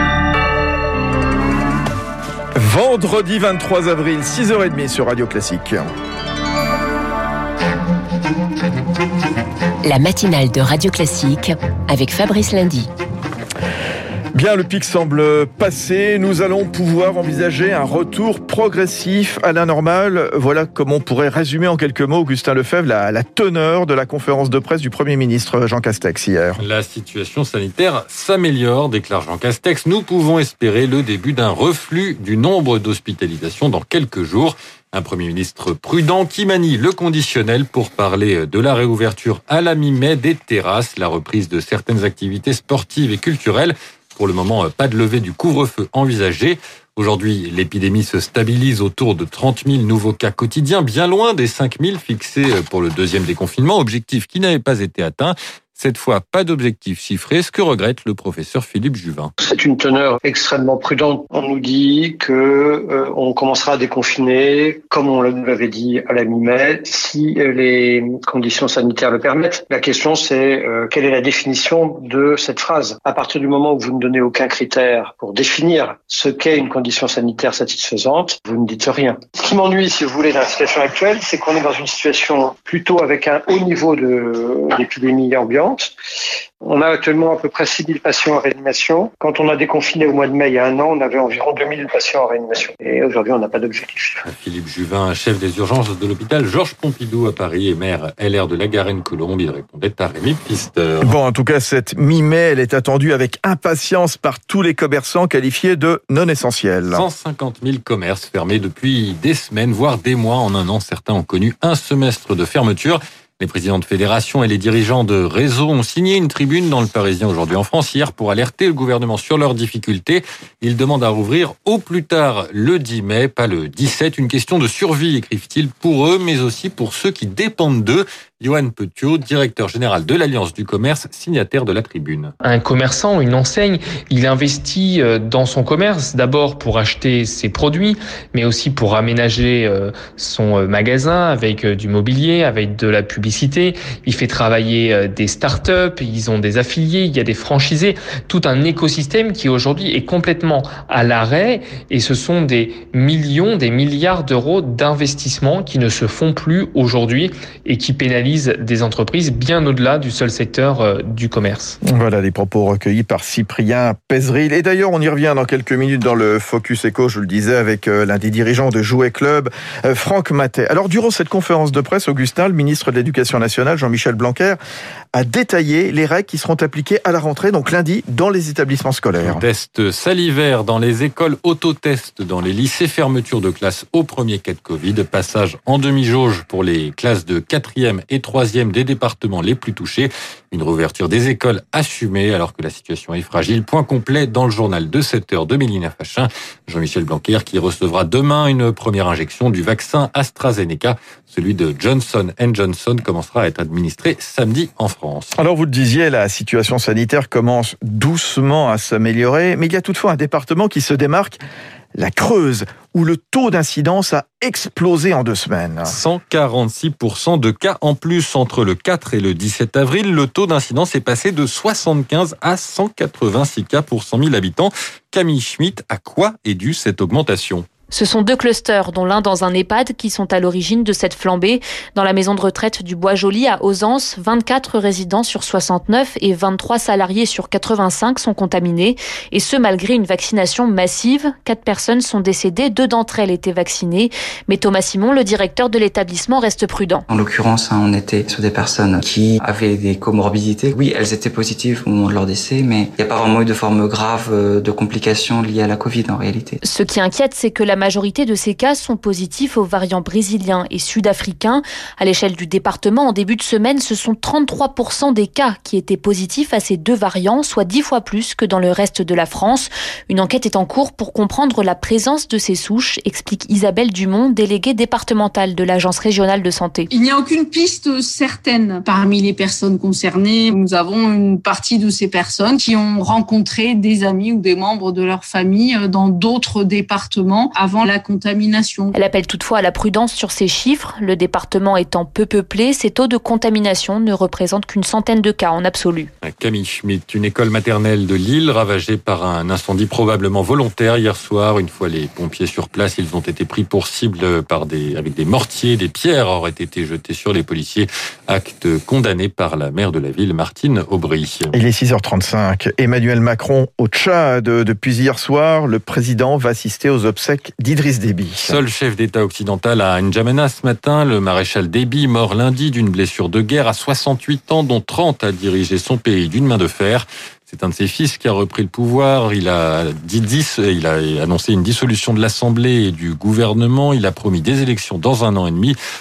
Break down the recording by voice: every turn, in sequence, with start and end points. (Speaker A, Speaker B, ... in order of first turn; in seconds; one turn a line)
Speaker A: 2.6-5.9
Speaker B: 9.8-12.9
Speaker A: 14.3-26.6
Speaker C: 26.6-59.3
Speaker D: 59.4-85.9
Speaker D: 86.6-94.2
Speaker C: 94.2-101.1
Speaker A: 101.0-107.0
Speaker C: 106.9-132.3
Speaker E: 132.4-161.8
Speaker A: 161.8-174.6
Speaker A: 175.1-179.4
Speaker C: 179.2-205.3
Speaker A: 205.4-211.4
Speaker A: 211.9-216.0
Speaker C: 215.8-227.7
Speaker F: 227.9-247.1
Speaker G: 247.1-256.6
Speaker F: 256.6-276.9
Speaker H: 276.9-288.9
Speaker F: 288.9-296.1
Speaker C: 296.2-311.5
Speaker A: 311.5-318.6
Speaker C: 318.4-335.8